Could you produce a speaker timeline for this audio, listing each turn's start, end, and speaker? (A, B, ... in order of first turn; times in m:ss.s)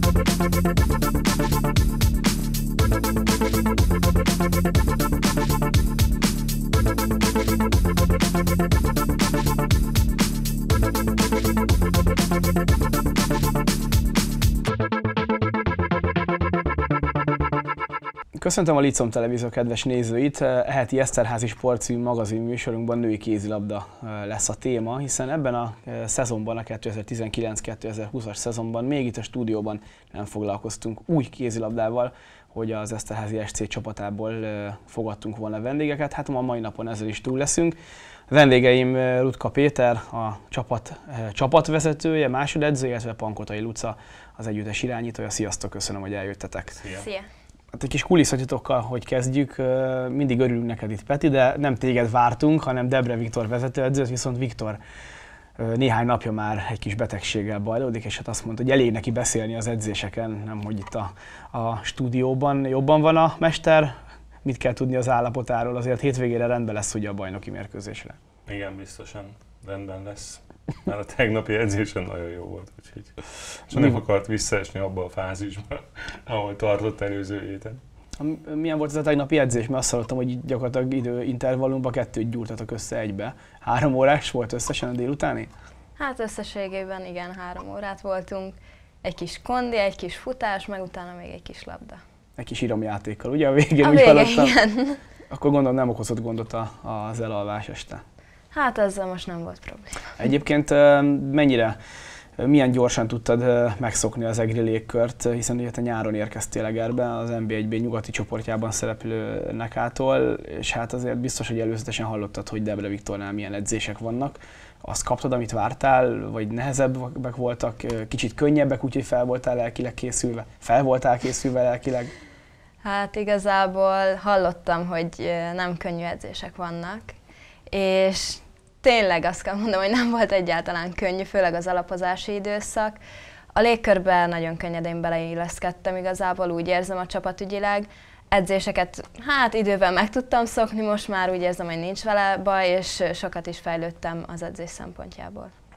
0:18.4-0:37.7 A
0:38.3-0:46.8 A
0:46.8-0:47.0 B
0:46.9-0:47.3 C
0:47.7-0:54.8 A
0:55.6-1:08.2 A
1:08.4-1:13.1 B
1:13.7-1:17.8 B
1:18.2-1:25.5 A
1:26.0-1:32.0 C
1:32.4-1:34.5 A
1:33.8-1:35.0 C
1:35.3-1:38.0 A
1:38.5-1:40.2 C
1:40.2-1:41.8 A
1:42.4-2:02.1 A
2:02.8-2:07.2 C
2:07.7-2:13.0 C
2:13.5-2:25.5 C